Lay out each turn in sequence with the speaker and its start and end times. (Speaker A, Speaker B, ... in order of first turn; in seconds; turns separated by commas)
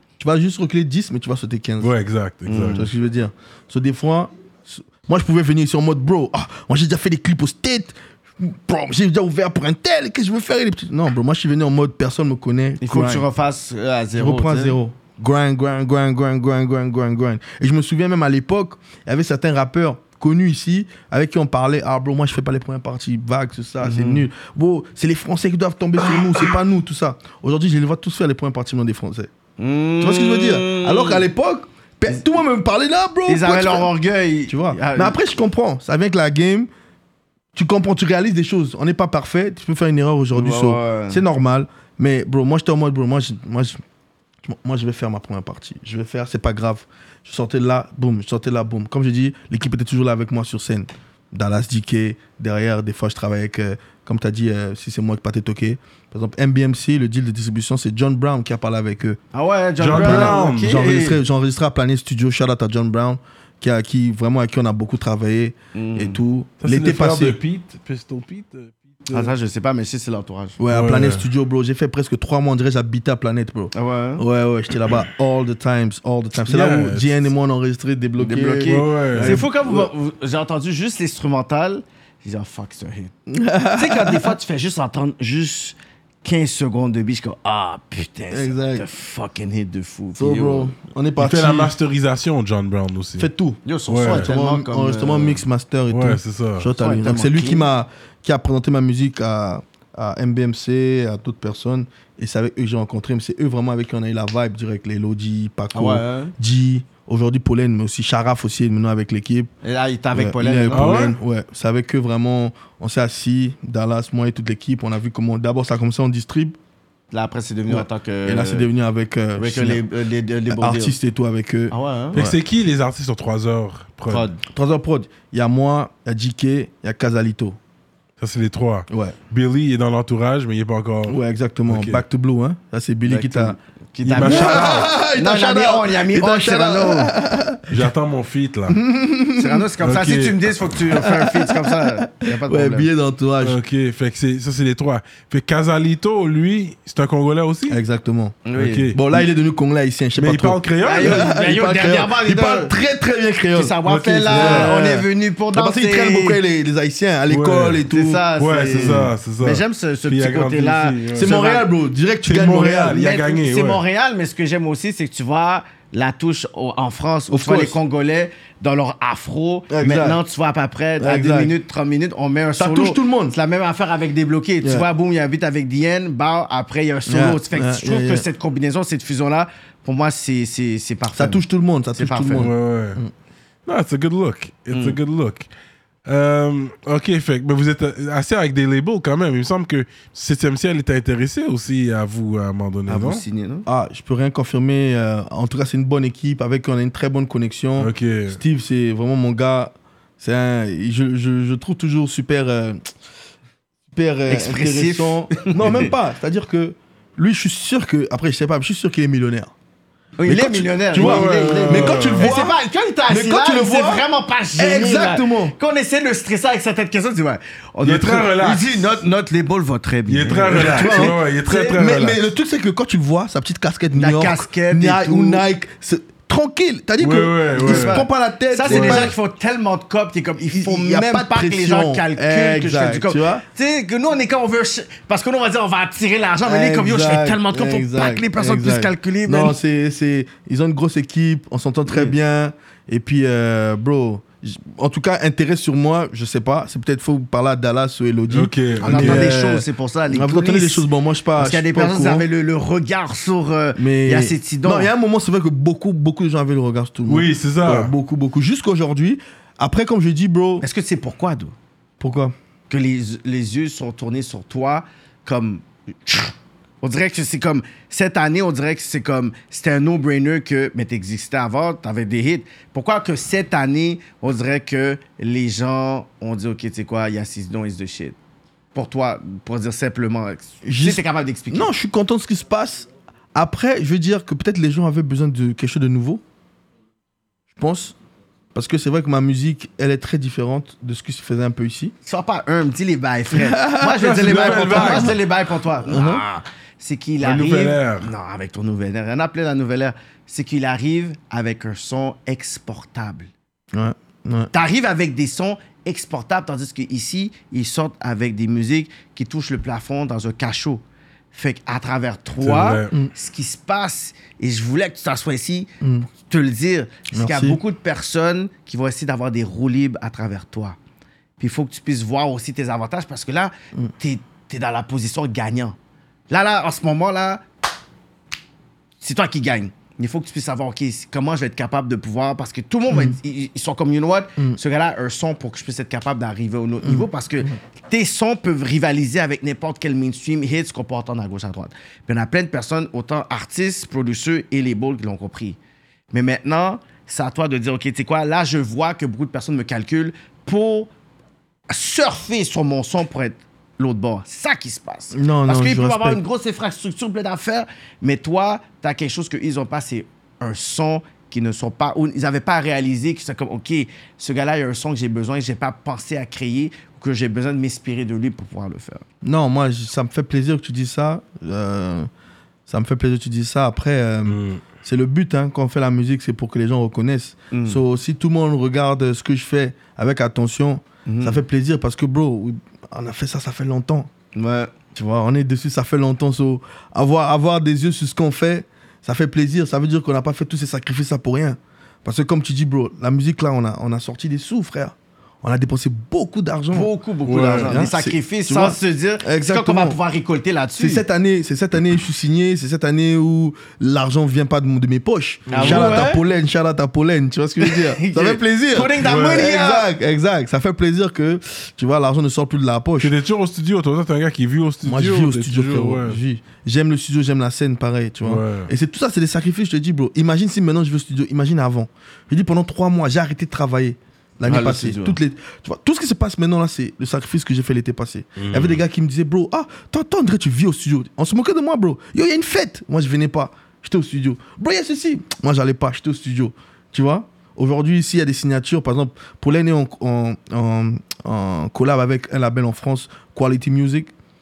Speaker A: 0.2-1.9, Speaker B: 1.8-2.9, Speaker C: 2.5-2.9, Speaker A: 2.6-13.2, Speaker C: 12.8-14.8, Speaker A: 14.2-29.3, Speaker C: 23.8-24.3, Speaker C: 29.6-31.2, Speaker A: 30.0-33.9, Speaker C: 33.3-35.2, Speaker A: 34.5-36.7, Speaker A: 37.5-43.8, Speaker C: 40.3-41.2, Speaker A: 44.4-59.2, Speaker C: 59.3-61.2, Speaker B: 59.8-60.8, Speaker A: 60.0-67.4, Speaker C: 65.7-66.2, Speaker B: 66.6-69.3, Speaker C: 69.1-70.6, Speaker A: 70.6-79.9, Speaker B: 70.7-71.2, Speaker C: 73.7-74.2, Speaker B: 76.4-77.3, Speaker C: 78.2-83.1, Speaker B: 78.6-79.5, Speaker A: 83.3-84.3, Speaker C: 83.8-90.7, Speaker A: 88.3-88.8, Speaker A: 90.2-91.7, Speaker B: 91.2-93.3, Speaker A: 93.2-109.5, Speaker C: 93.6-95.4, Speaker B: 93.9-94.3, Speaker B: 95.9-96.7, Speaker C: 96.8-97.6, Speaker C: 105.7-106.3, Speaker C: 109.6-111.0, Speaker A: 110.1-116.6, Speaker B: 110.7-111.2, Speaker C: 117.1-118.7, Speaker A: 117.7-119.8, Speaker C: 119.4-121.0, Speaker A: 120.5-122.4, Speaker C: 121.7-122.2, Speaker B: 122.1-124.3, Speaker C: 124.1-124.4, Speaker A: 124.4-127.6, Speaker B: 128.2-131.2, Speaker A: 128.9-129.2, Speaker A: 131.1-133.6, Speaker B: 131.7-132.0, Speaker C: 133.0-137.1, Speaker B: 134.0-134.9, Speaker A: 134.2-137.9, Speaker B: 137.7-138.8, Speaker A: 138.7-139.7, Speaker C: 139.4-142.9, Speaker B: 139.8-140.4, Speaker A: 140.9-143.6, Speaker B: 143.4-147.8, Speaker A: 147.7-153.8, Speaker C: 148.4-148.9, Speaker B: 148.6-149.2, Speaker B: 150.2-151.3, Speaker C: 150.8-152.7, Speaker C: 153.5-156.4, Speaker B: 153.8-154.8, Speaker A: 154.3-159.1, Speaker B: 157.3-157.8, Speaker C: 157.9-161.7, Speaker B: 158.4-161.3, Speaker A: 161.1-163.0, Speaker B: 162.2-163.8, Speaker C: 162.9-181.4, Speaker A: 167.3-167.8, Speaker A: 169.7-170.2, Speaker A: 171.0-171.5, Speaker A: 172.6-173.3, Speaker A: 177.1-178.2, Speaker A: 181.2-183.1, Speaker C: 181.9-182.5, Speaker B: 182.4-183.0, Speaker B: 183.7-185.5, Speaker C: 184.7-185.0, Speaker B: 186.1-193.2, Speaker C: 192.9-193.7, Speaker A: 193.7-202.8, Speaker B: 197.8-198.4, Speaker A: 203.9-209.5, Speaker C: 204.3-205.9, Speaker C: 210.2-221.8, Speaker A: 210.2-212.6, Speaker B: 210.9-212.4, Speaker A: 213.1-214.0, Speaker A: 214.6-215.6, Speaker B: 217.8-218.8, Speaker B: 220.1-222.2, Speaker A: 220.5-229.1, Speaker C: 223.9-225.4, Speaker B: 227.0-228.0, Speaker C: 227.6-239.6, Speaker B: 228.7-229.1, Speaker A: 230.5-233.4, Speaker A: 236.4-252.2, Speaker C: 241.8-242.1, Speaker B: 248.3-249.3, Speaker C: 248.8-250.8, Speaker C: 251.4-254.9, Speaker A: 253.8-260.6, Speaker B: 257.1-257.9, Speaker C: 260.6-261.5, Speaker A: 262.0-262.3, Speaker C: 262.7-278.1, Speaker C: 278.7-281.7, Speaker A: 280.6-286.2, Speaker A: 287.5-287.9, Speaker A: 288.5-291.9, Speaker C: 292.0-303.3, Speaker A: 293.3-295.2, Speaker B: 294.0-295.1, Speaker A: 295.8-296.2, Speaker B: 297.2-298.1, Speaker A: 303.7-304.5, Speaker C: 304.5-320.8, Speaker B: 312.4-312.9, Speaker A: 315.8-316.1, Speaker A: 317.1-317.6, Speaker C: 321.4-325.8, Speaker C: 326.3-327.4, Speaker C: 329.0-345.6, Speaker A: 332.9-333.2, Speaker A: 336.8-337.5, Speaker C: 346.1-350.9, Speaker C: 351.7-369.0, Speaker A: 355.1-356.2, Speaker A: 369.2-372.1, Speaker A: 372.7-384.1, Speaker B: 374.2-374.6, Speaker C: 377.5-377.8, Speaker C: 381.1-381.4, Speaker C: 384.3-384.7, Speaker A: 384.9-396.9, Speaker C: 396.7-401.0, Speaker B: 397.3-397.8, Speaker A: 397.6-400.0, Speaker A: 400.8-413.1, Speaker B: 405.5-406.1, Speaker C: 405.5-406.2, Speaker C: 407.6-409.9, Speaker B: 409.0-409.5, Speaker B: 413.0-416.2, Speaker A: 414.8-444.1, Speaker B: 418.2-418.7, Speaker C: 424.4-425.2, Speaker B: 428.4-428.8